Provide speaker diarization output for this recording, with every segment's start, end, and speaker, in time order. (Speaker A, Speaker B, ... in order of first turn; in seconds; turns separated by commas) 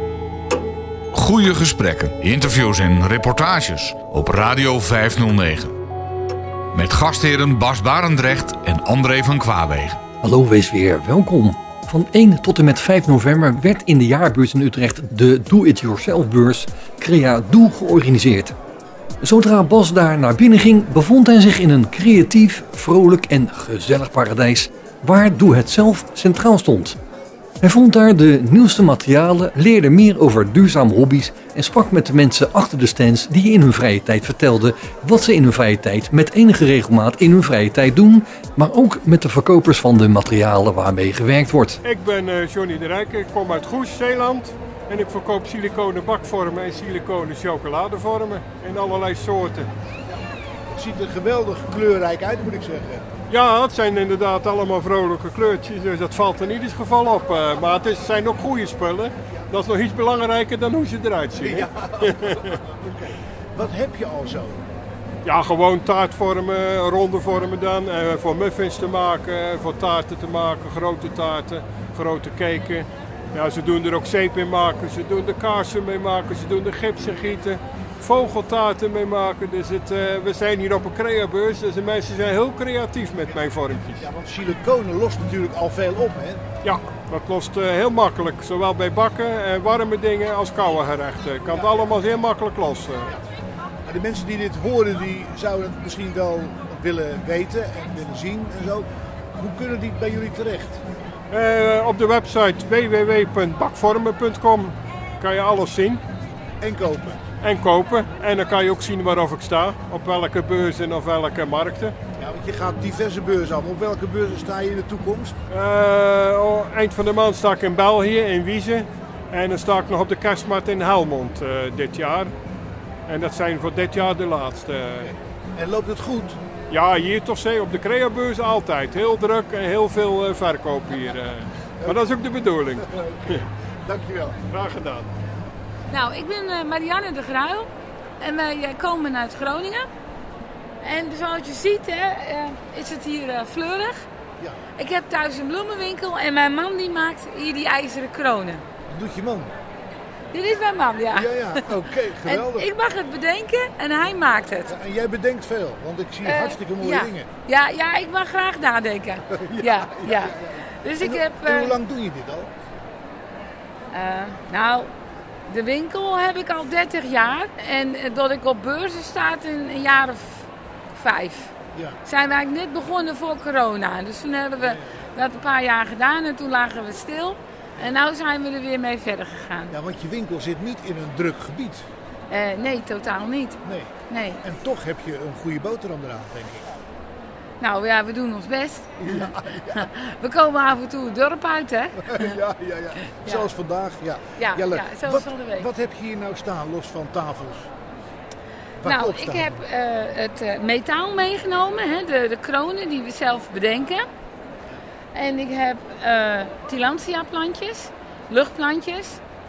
Speaker A: 1.1-5.7, Speaker A: 6.7-10.0, Speaker B: 10.2-18.5, Speaker B: 19.2-27.0, Speaker B: 27.6-41.8, Speaker C: 41.8-49.7, Speaker D: 50.7-53.1, Speaker C: 53.3-62.6, Speaker D: 61.4-64.6, Speaker C: 65.2-84.0, Speaker D: 83.2-86.4, Speaker C: 86.6-93.1, Speaker D: 91.5-92.0, Speaker D: 93.8-100.8, Speaker C: 101.3-106.0, Speaker D: 106.6-107.2, Speaker C: 107.4-111.9, Speaker D: 112.2-115.4, Speaker C: 115.5-122.3, Speaker C: 123.1-125.1, Speaker D: 125.0-126.4, Speaker C: 126.7-133.4, Speaker D: 131.8-132.1, Speaker D: 132.8-134.4, Speaker C: 134.5-135.1, Speaker E: 135.9-137.7, Speaker E: 138.2-139.9, Speaker E: 140.8-144.0, Speaker E: 144.8-148.6, Speaker D: 148.9-149.5, Speaker E: 150.3-151.6, Speaker D: 151.1-152.7, Speaker E: 152.2-154.7, Speaker D: 154.7-157.3, Speaker E: 156.2-161.7, Speaker D: 159.3-162.5, Speaker E: 163.9-164.9, Speaker E: 165.5-171.5, Speaker E: 172.1-179.7, Speaker D: 174.6-175.1, Speaker D: 179.7-181.8, Speaker E: 182.3-184.4, Speaker D: 183.6-186.7, Speaker E: 187.6-192.4, Speaker D: 189.0-189.9, Speaker D: 192.1-197.7, Speaker E: 194.4-195.7, Speaker D: 198.8-199.6, Speaker E: 198.8-204.1, Speaker E: 205.1-209.2